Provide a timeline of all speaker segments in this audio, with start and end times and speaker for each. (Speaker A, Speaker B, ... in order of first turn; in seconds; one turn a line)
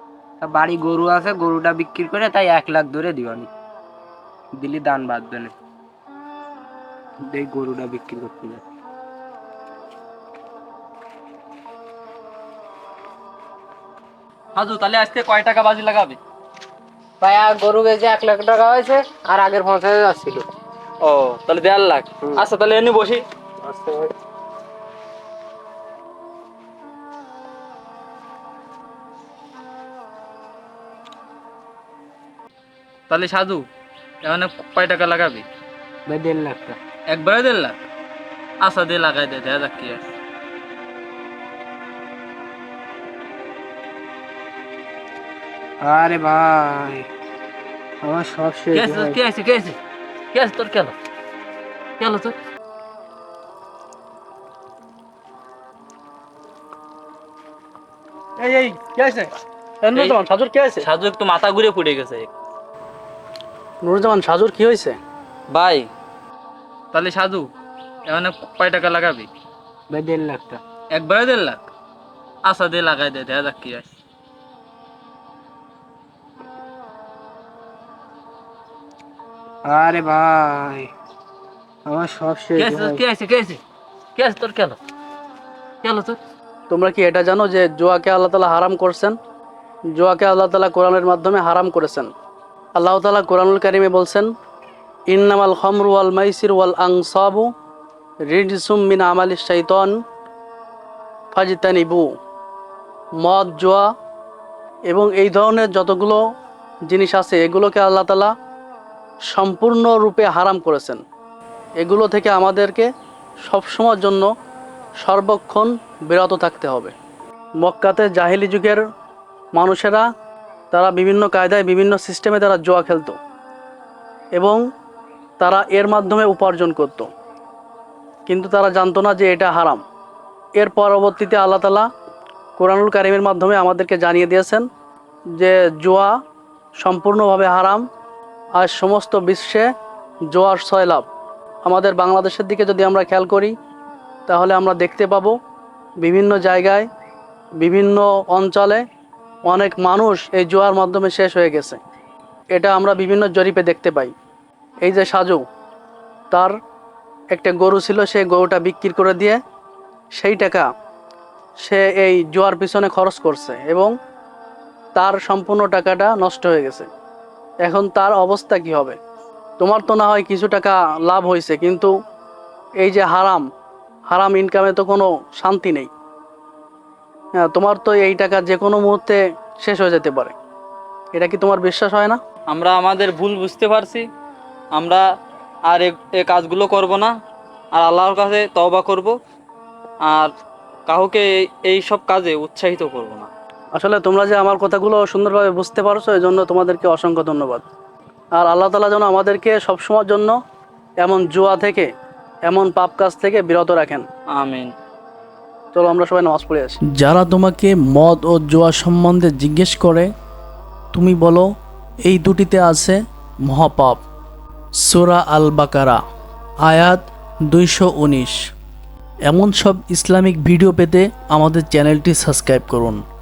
Speaker A: 0.4-3.5
Speaker A: 4.6-5.5
Speaker A: 7.2-8.6
Speaker B: 14.6-16.2
Speaker A: 17.2-20.4
Speaker B: 21.0-23.2
Speaker A: 23.6-24.1
Speaker B: 33.1-33.7
Speaker B: 34.2-35.5
Speaker A: 36.1-36.8
Speaker B: 37.1-37.8
Speaker B: 38.6-40.0
Speaker A: 45.8-47.1
Speaker A: 48.0-49.2
Speaker B: 48.7-49.8
Speaker B: 50.3-50.9
Speaker B: 52.0-52.3
Speaker C: 58.6-59.2
Speaker C: 59.8-60.9
Speaker B: 60.8-62.3
Speaker C: 63.8-65.0
Speaker B: 65.5-65.9
Speaker B: 66.9-67.5
Speaker B: 68.1-69.3
Speaker A: 69.9-70.6
Speaker B: 70.9-71.7
Speaker B: 72.5-73.9
Speaker A: 79.7-80.9
Speaker A: 81.9-83.0
Speaker B: 82.6-83.6
Speaker B: 84.2-84.8
Speaker B: 85.8-86.2
Speaker C: 86.7-89.2
Speaker C: 90.0-92.1
Speaker C: 92.8-94.3
Speaker C: 95.1-97.5
Speaker C: 98.3-99.9
Speaker C: 101.3-102.1
Speaker C: 103.2-103.9
Speaker C: 104.9-106.2
Speaker C: 106.9-108.3
Speaker C: 109.3-111.0
Speaker C: 111.8-112.9
Speaker C: 113.5-114.3
Speaker C: 115.0-116.9
Speaker C: 117.6-118.8
Speaker C: 119.5-120.0
Speaker C: 120.7-123.2
Speaker C: 125.4-127.1
Speaker C: 128.3-129.8
Speaker C: 130.6-131.9
Speaker C: 132.6-134.7
Speaker C: 135.4-136.2
Speaker C: 136.8-137.8
Speaker C: 138.6-139.7
Speaker C: 140.3-141.1
Speaker C: 141.7-143.5
Speaker C: 144.3-145.4
Speaker C: 146.0-146.9
Speaker C: 147.6-148.8
Speaker C: 149.5-151.8
Speaker C: 152.5-154.1
Speaker C: 154.8-155.4
Speaker C: 157.3-159.4
Speaker C: 160.2-160.7
Speaker C: 161.6-163.9
Speaker C: 165.0-166.9
Speaker C: 167.6-169.0
Speaker C: 169.6-171.9
Speaker C: 172.8-173.4
Speaker C: 174.1-175.9
Speaker C: 177.4-180.3
Speaker C: 181.1-182.2
Speaker B: 182.5-184.1
Speaker B: 184.7-185.0
Speaker B: 185.7-187.1
Speaker B: 187.7-189.2
Speaker B: 190.0-190.3
Speaker B: 190.9-193.3
Speaker C: 193.8-197.7
Speaker C: 198.3-200.3
Speaker C: 201.0-201.9
Speaker C: 202.5-204.1
Speaker B: 204.3-204.7
Speaker C: 205.7-210.1
Speaker C: 210.9-211.5
Speaker C: 212.0-214.0
Speaker C: 214.8-216.0
Speaker C: 216.7-218.4
Speaker C: 219.3-223.0